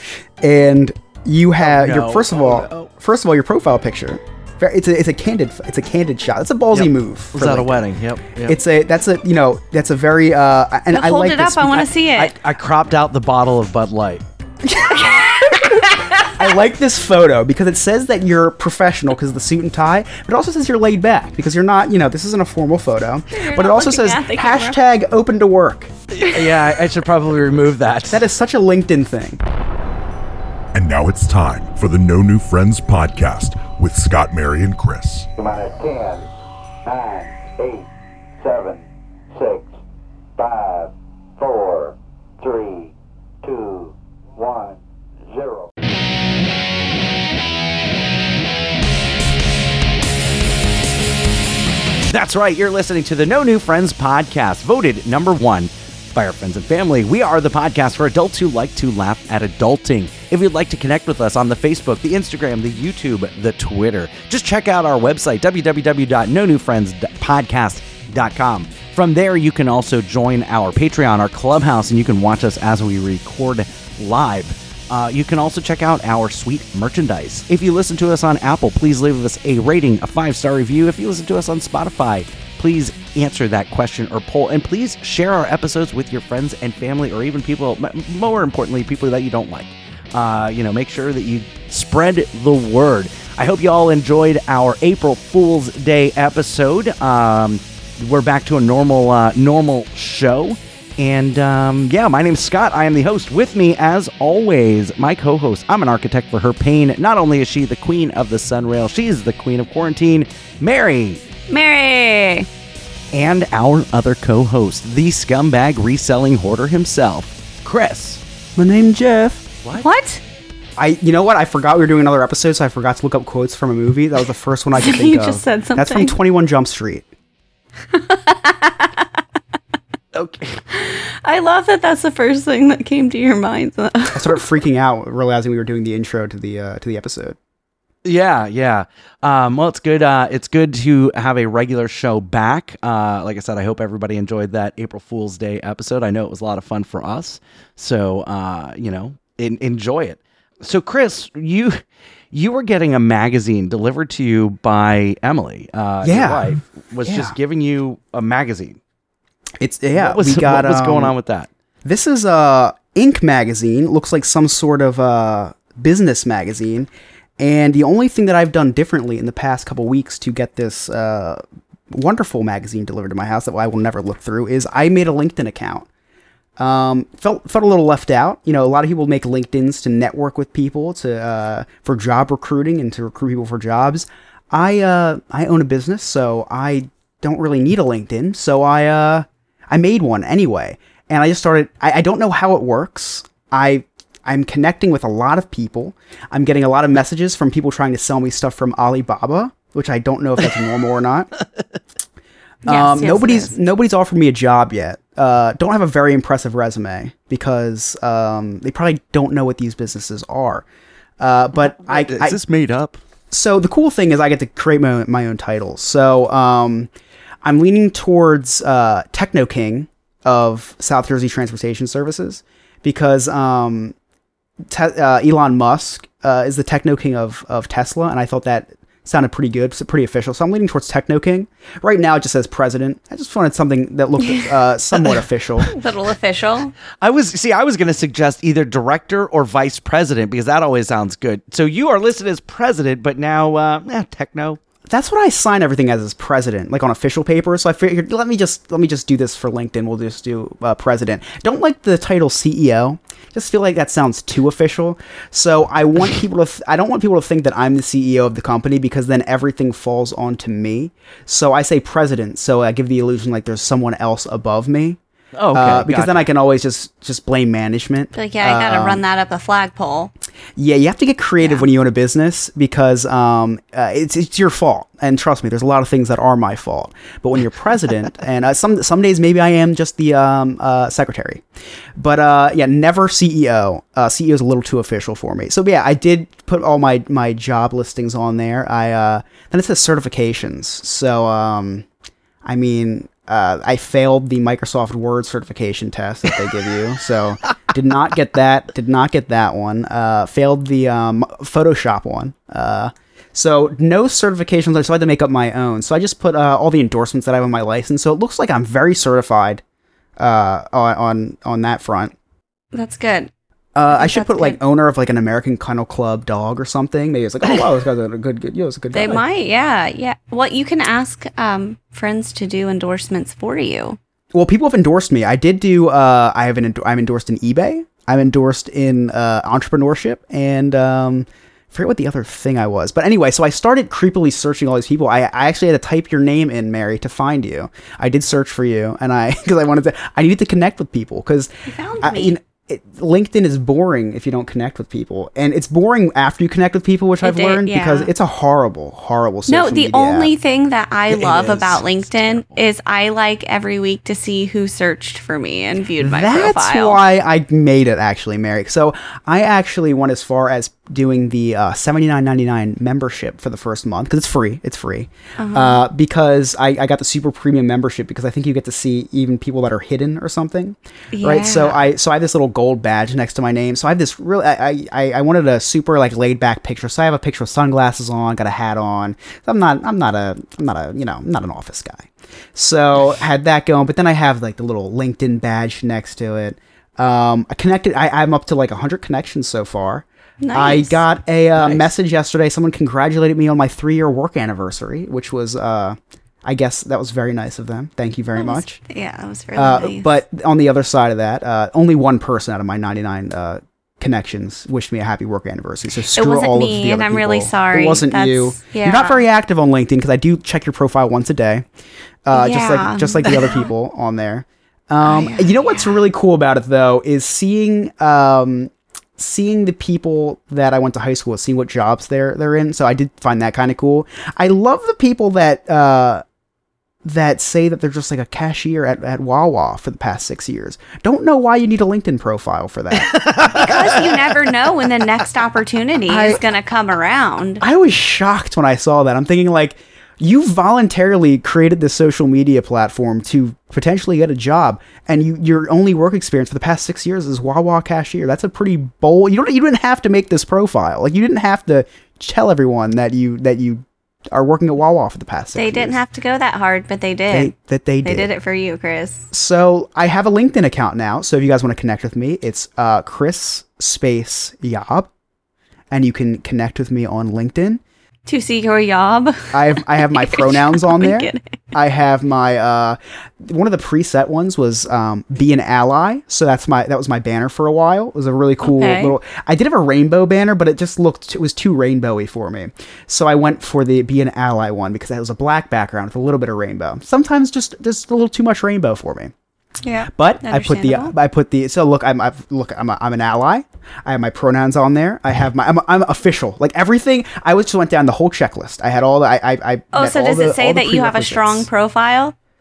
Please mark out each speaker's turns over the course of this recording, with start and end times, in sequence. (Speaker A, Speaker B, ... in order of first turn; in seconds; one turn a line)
Speaker A: 0.4-7.8
Speaker B: 1.6-2.9
Speaker B: 6.7-8.6
Speaker A: 8.4-11.9
Speaker C: 10.9-12.3
Speaker B: 12.2-14.2
Speaker A: 14.7-25.9
Speaker C: 14.9-16.3
Speaker C: 23.3-24.8
Speaker B: 26.1-28.2
Speaker A: 28.1-29.4
Speaker D: 30.7-35.3
Speaker E: 35.4-36.3
Speaker E: 36.8-37.9
Speaker E: 38.4-38.8
Speaker E: 39.3-39.7
Speaker E: 40.4-45.7
Speaker B: 52.1-111.2
Speaker C: 111.5-112.5
Speaker B: 113.1-118.2
Speaker A: 118.5-119.5
Speaker C: 119.7-120.2
Speaker A: 120.8-127.0
Speaker C: 124.7-126.2
Speaker C: 127.9-128.9
Speaker B: 130.1-130.6
Speaker C: 130.7-134.4
Speaker A: 134.1-137.3
Speaker B: 138.0-158.8
Speaker A: 156.0-157.3
Speaker A: 159.6-161.2
Speaker B: 159.9-161.5
Speaker A: 161.8-171.4
Speaker A: 171.9-175.9
Speaker A: 176.6-201.3
Speaker C: 202.6-203.5
Speaker A: 202.7-210.6
Speaker A: 211.2-212.4
Speaker B: 211.6-213.0
Speaker A: 213.3-216.9
Speaker A: 217.4-223.9
Speaker A: 224.7-235.7
Speaker C: 235.6-236.8
Speaker B: 236.9-244.6
Speaker A: 244.9-265.0
Speaker B: 265.3-266.3
Speaker A: 265.5-269.0
Speaker C: 268.1-270.1
Speaker A: 270.6-281.4
Speaker C: 271.4-271.6
Speaker A: 282.0-291.9
Speaker A: 292.4-309.6
Speaker A: 310.2-312.1
Speaker C: 312.7-313.3
Speaker A: 313.7-319.2
Speaker C: 313.9-314.6
Speaker C: 318.9-324.0
Speaker A: 324.3-341.5
Speaker C: 341.7-342.4
Speaker A: 342.0-350.3
Speaker C: 347.2-348.1
Speaker C: 349.5-357.0
Speaker B: 351.1-352.6
Speaker A: 356.0-398.8
Speaker C: 365.4-365.8
Speaker C: 371.1-371.8
Speaker C: 390.4-391.0
Speaker B: 391.5-391.9
Speaker C: 398.4-400.1
Speaker A: 399.5-411.6
Speaker C: 406.1-409.2
Speaker A: 412.2-426.2
Speaker C: 412.3-413.7
Speaker C: 415.0-416.0
Speaker A: 427.0-433.3
Speaker B: 432.9-434.5
Speaker C: 433.5-437.6
Speaker A: 436.1-436.4
Speaker A: 437.6-456.0
Speaker C: 455.5-459.2
Speaker A: 457.3-458.3
Speaker A: 459.3-465.1
Speaker A: 465.9-467.8
Speaker C: 468.2-471.4
Speaker A: 469.5-489.3
Speaker C: 478.6-479.1
Speaker C: 489.8-491.1
Speaker A: 490.1-501.7
Speaker C: 499.9-502.3